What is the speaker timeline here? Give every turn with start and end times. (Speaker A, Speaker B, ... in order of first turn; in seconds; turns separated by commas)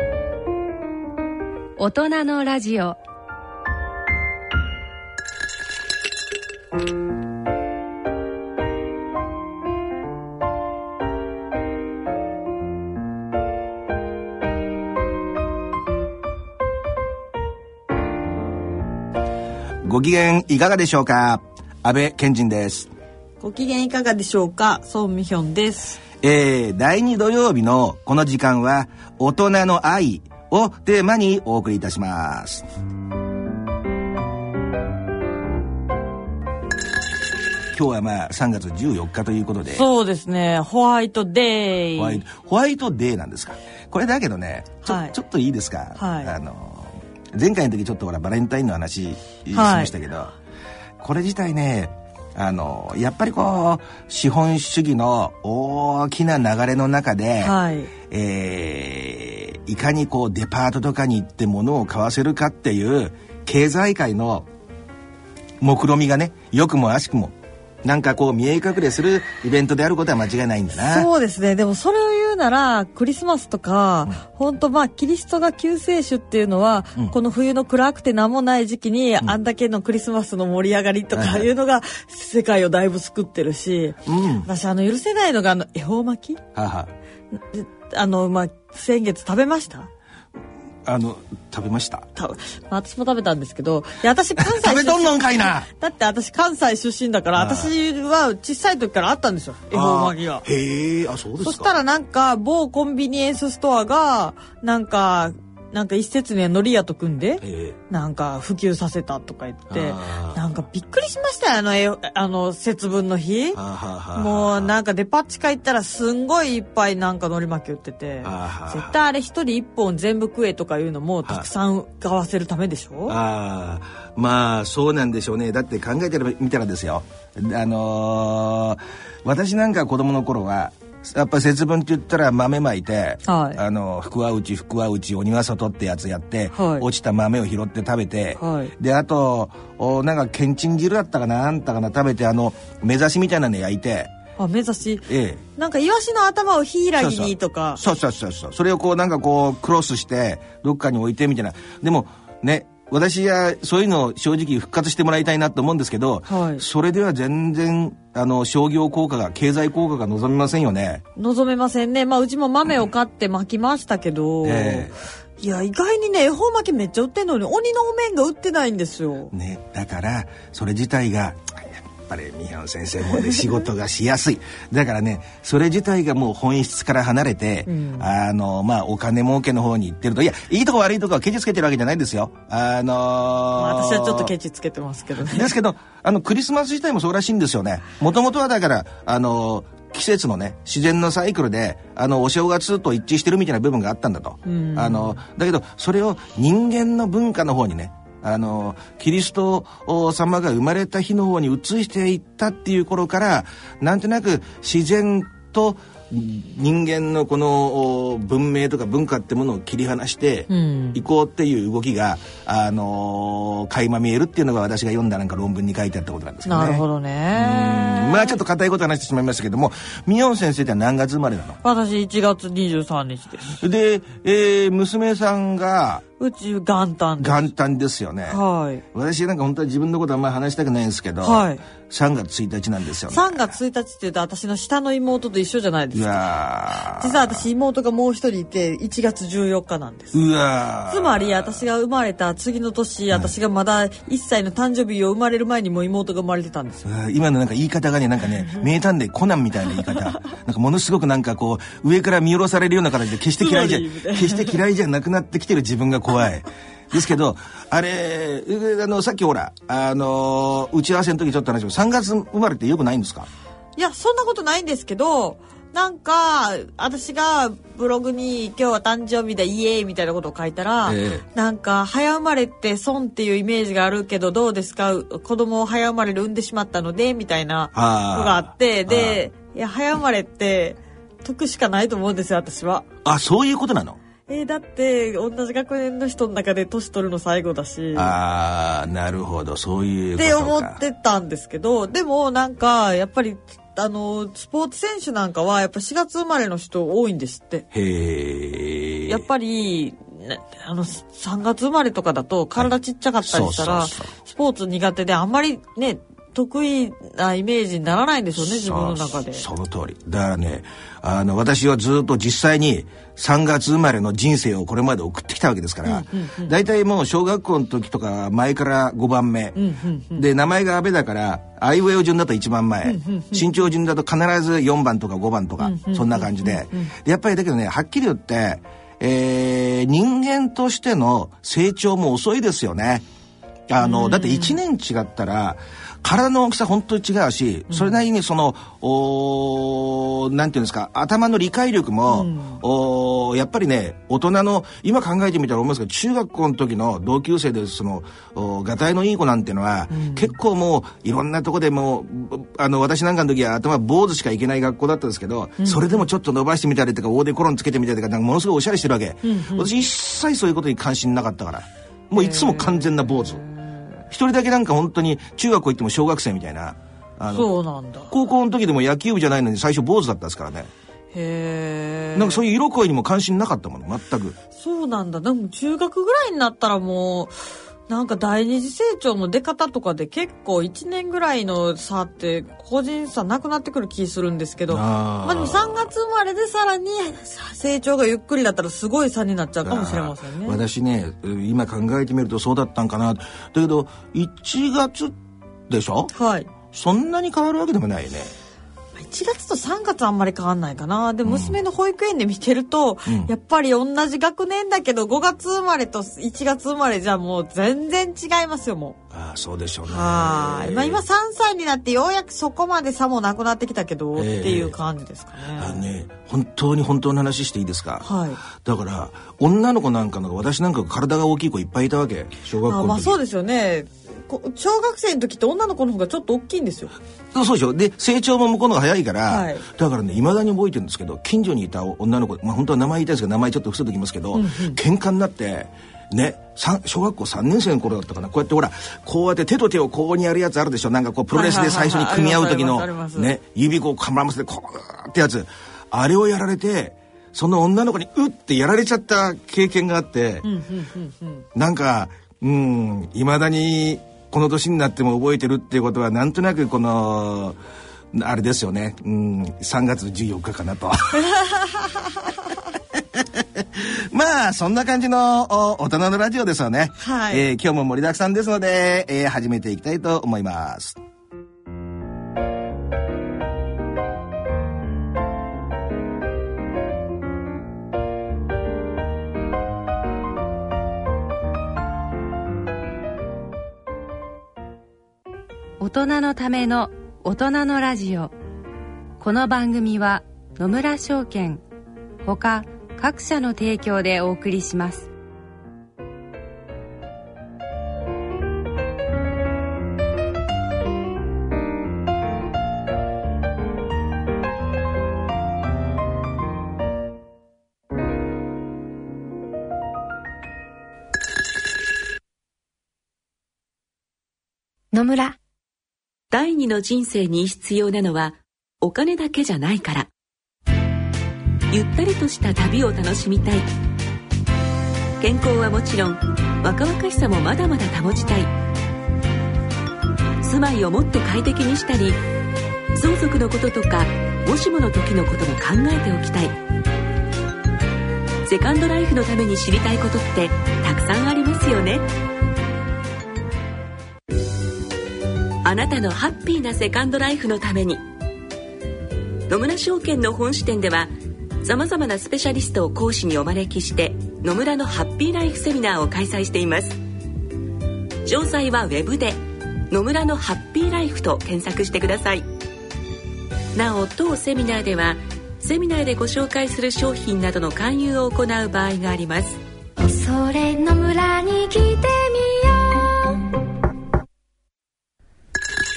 Speaker A: 1.8-3.0, Speaker B: 19.8-22.9, Speaker C: 23.4-26.0, Speaker B: 26.2-32.7, Speaker B: 37.7-39.9, Speaker C: 39.7-42.2, Speaker B: 42.0-50.4, Speaker C: 44.9-45.2, Speaker C: 46.0-46.3, Speaker C: 49.5-49.9, Speaker B: 51.0-57.5, Speaker C: 57.4-57.9, Speaker B: 58.1-64.5, Speaker B: 65.6-71.1, Speaker C: 70.8-86.4, Speaker B: 81.1-81.5, Speaker B: 84.0-84.5, Speaker B: 86.5-86.9, Speaker C: 87.3-89.9, Speaker B: 90.8-92.1, Speaker C: 92.2-100.5, Speaker B: 94.4-95.7, Speaker B: 97.4-97.7, Speaker B: 99.7-101.7, Speaker C: 101.4-113.6, Speaker B: 107.4-107.8, Speaker B: 109.7-110.4, Speaker B: 113.5-114.7, Speaker C: 114.2-123.2, Speaker B: 118.2-119.0, Speaker B: 123.1-144.1, Speaker C: 133.3-133.6, Speaker C: 136.5-136.9, Speaker C: 138.4-138.7, Speaker C: 144.4-147.8, Speaker B: 145.1-145.4, Speaker B: 147.0-161.0, Speaker C: 156.3-156.6, Speaker C: 161.2-169.3, Speaker B: 164.4-165.0, Speaker B: 169.3-184.3, Speaker C: 177.7-178.1, Speaker C: 183.6-185.5, Speaker B: 185.2-221.6, Speaker C: 194.4-195.2, Speaker C: 210.5-211.0, Speaker C: 216.4-218.4, Speaker C: 221.6-223.6, Speaker B: 223.6-226.0, Speaker C: 226.2-227.5, Speaker B: 227.2-228.4, Speaker C: 228.3-228.8, Speaker B: 228.9-233.6, Speaker C: 231.2-231.6, Speaker C: 233.1-236.3, Speaker B: 235.9-237.5, Speaker C: 236.9-240.2, Speaker B: 240.1-241.6, Speaker C: 240.9-246.9, Speaker B: 246.8-263.3, Speaker C: 253.4-254.6, Speaker C: 263.8-282.9, Speaker B: 270.9-271.2, Speaker B: 277.7-279.2, Speaker B: 283.0-284.0, Speaker C: 284.3-288.1, Speaker B: 287.9-290.8, Speaker C: 290.2-297.6, Speaker B: 297.7-299.2, Speaker C: 299.1-309.4, Speaker B: 303.2-304.1, Speaker B: 308.4-319.6, Speaker C: 315.9-316.5, Speaker C: 319.6-320.2, Speaker B: 320.1-333.1, Speaker C: 322.8-323.5, Speaker C: 325.6-326.9, Speaker B: 333.7-363.4, Speaker C: 333.8-334.6, Speaker C: 337.7-338.0, Speaker C: 342.1-342.6, Speaker C: 349.9-350.3, Speaker C: 355.6-356.1, Speaker C: 359.2-359.7, Speaker C: 362.1-364.0, Speaker B: 364.1-367.5, Speaker C: 367.3-368.1, Speaker B: 368.1-370.7, Speaker C: 371.1-372.4, Speaker B: 372.1-374.4, Speaker C: 374.6-377.3, Speaker C: 377.9-390.6, Speaker B: 384.7-385.9, Speaker B: 389.6-395.2, Speaker B: 395.7-396.1, Speaker C: 396.1-396.5, Speaker B: 396.7-398.3, Speaker C: 399.0-409.0, Speaker B: 401.2-401.6, Speaker B: 403.1-403.3, Speaker B: 409.1-411.0, Speaker C: 409.9-415.9, Speaker B: 414.2-414.7, Speaker B: 415.6-423.2, Speaker C: 418.0-418.4, Speaker C: 422.6-426.9, Speaker B: 427.3-450.5, Speaker C: 429.3-429.6, Speaker C: 434.3-434.8, Speaker C: 441.3-443.4, Speaker C: 450.4-451.4, Speaker B: 451.6-457.6, Speaker B: 458.1-461.3, Speaker C: 461.1-462.3, Speaker B: 463.1-471.0, Speaker C: 467.0-467.5, Speaker A: 485.8-488.3, Speaker A: 489.2-491.6, Speaker A: 492.2-495.1, Speaker D: 514.9-515.4, Speaker E: 516.3-520.1, Speaker E: 521.7-523.7, Speaker E: 525.2-528.5, Speaker E: 530.4-532.2, Speaker E: 533.0-536.6, Speaker E: 538.5-542.0, Speaker E: 545.6-548.0, Speaker E: 549.5-557.0, Speaker E: 558.3-562.5, Speaker E: 563.8-569.6, Speaker D: 570.0-573.4